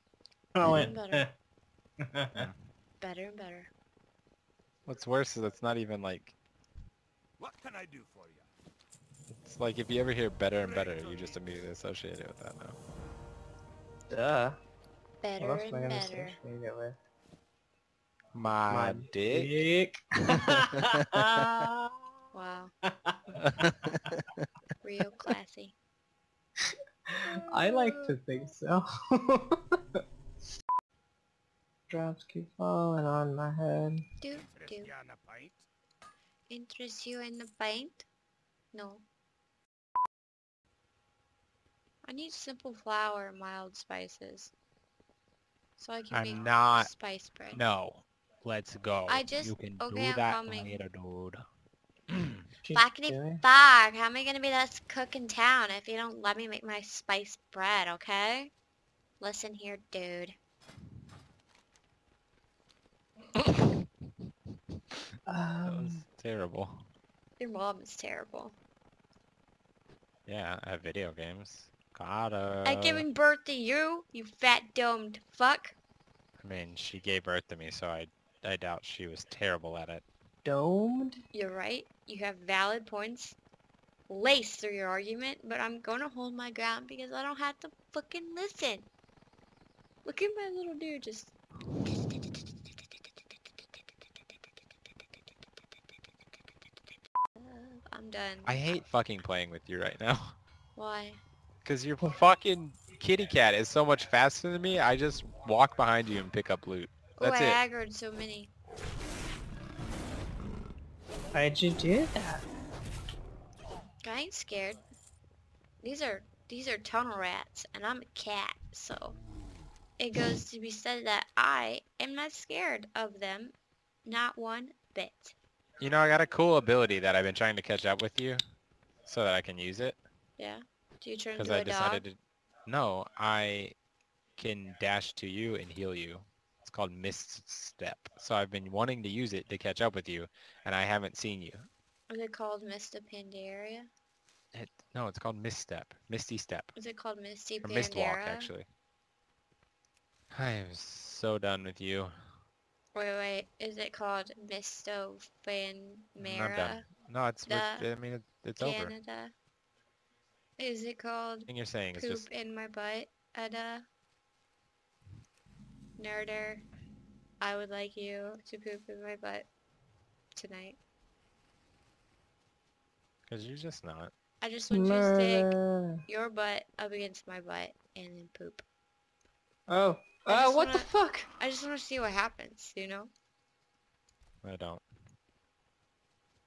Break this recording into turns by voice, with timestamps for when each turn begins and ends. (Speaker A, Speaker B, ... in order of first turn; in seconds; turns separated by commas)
Speaker A: 0.6-1.3, Speaker B: 0.7-1.3, Speaker A: 2.0-2.5, Speaker B: 3.0-3.7, Speaker C: 4.9-6.4, Speaker D: 7.4-8.5, Speaker C: 9.3-12.8, Speaker A: 14.1-14.6, Speaker B: 15.2-16.4, Speaker A: 15.4-17.0, Speaker C: 18.3-19.5, Speaker A: 18.7-22.0, Speaker C: 21.1-21.4, Speaker B: 22.3-22.7, Speaker A: 22.8-23.2, Speaker C: 23.4-24.2, Speaker B: 24.8-25.8, Speaker A: 27.1-29.8, Speaker A: 31.9-34.1, Speaker B: 34.2-34.9, Speaker D: 34.4-35.6, Speaker B: 36.5-38.1, Speaker B: 38.7-39.0, Speaker B: 42.0-44.5, Speaker B: 45.8-47.6, Speaker C: 46.1-46.9, Speaker C: 47.5-51.5, Speaker B: 49.1-50.8, Speaker C: 52.1-52.4, Speaker A: 52.6-53.4, Speaker B: 52.7-58.5, Speaker B: 59.2-60.4, Speaker A: 65.3-66.0, Speaker C: 65.7-66.9, Speaker B: 67.4-68.6, Speaker C: 70.3-73.1, Speaker B: 72.7-75.8, Speaker C: 76.4-80.0, Speaker A: 80.5-81.2, Speaker B: 81.3-83.4, Speaker B: 84.1-88.9, Speaker B: 90.0-92.5, Speaker B: 97.4-98.7, Speaker C: 98.5-100.4, Speaker B: 100.8-101.2, Speaker C: 101.6-107.6, Speaker B: 107.2-108.5, Speaker A: 111.3-112.4, Speaker B: 114.0-114.8, Speaker B: 115.8-119.2, Speaker B: 120.0-125.3, Speaker C: 125.8-128.4, Speaker C: 129.1-130.0, Speaker B: 130.4-132.1, Speaker C: 131.3-133.7, Speaker C: 134.4-141.7, Speaker B: 142.1-143.9, Speaker C: 144.5-146.7, Speaker B: 146.8-148.5, Speaker C: 147.6-148.7, Speaker C: 150.3-152.1, Speaker B: 152.9-156.9, Speaker C: 156.2-158.9, Speaker B: 157.5-157.9, Speaker B: 158.6-159.3, Speaker B: 160.6-163.8, Speaker C: 161.5-162.3, Speaker B: 166.0-166.7, Speaker B: 167.4-169.5, Speaker B: 170.3-170.8, Speaker C: 173.3-174.1, Speaker B: 174.4-175.6, Speaker A: 174.7-176.0, Speaker B: 176.1-178.6, Speaker A: 179.7-181.3, Speaker B: 180.3-183.1, Speaker C: 184.4-184.8